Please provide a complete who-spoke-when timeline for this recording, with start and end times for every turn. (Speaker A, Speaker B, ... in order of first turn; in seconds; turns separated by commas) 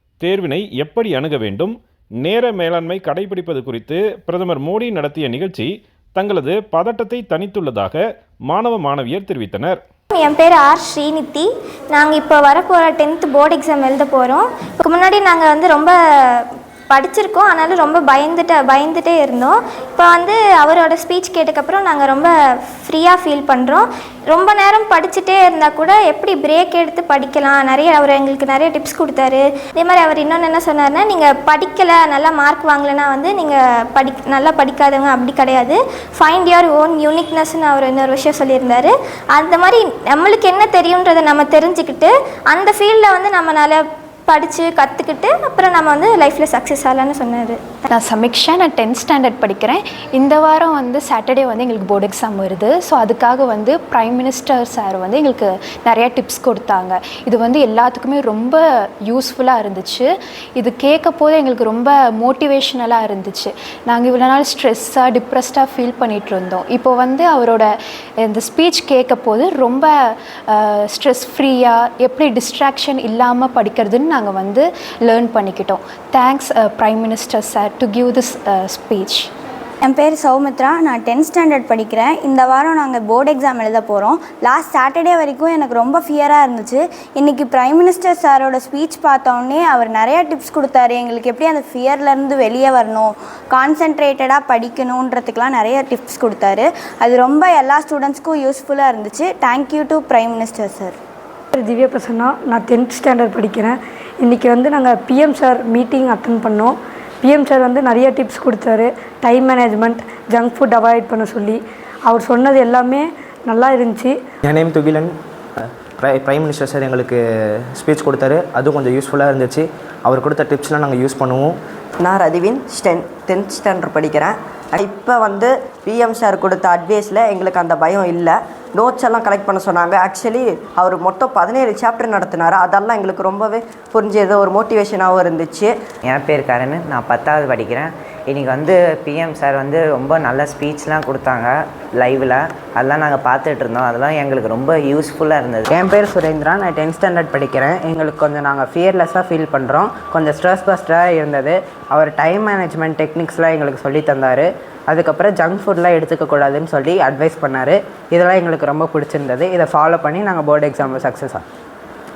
Speaker A: 0.2-9.8, Speaker B: 10.1-47.8, Speaker C: 47.9-67.7, Speaker C: 68.2-79.3, Speaker D: 79.8-101.0, Speaker E: 101.5-114.2, Speaker F: 114.5-117.2, Speaker F: 117.7-121.6, Speaker G: 122.0-135.8, Speaker H: 136.1-145.7, Speaker I: 145.7-161.4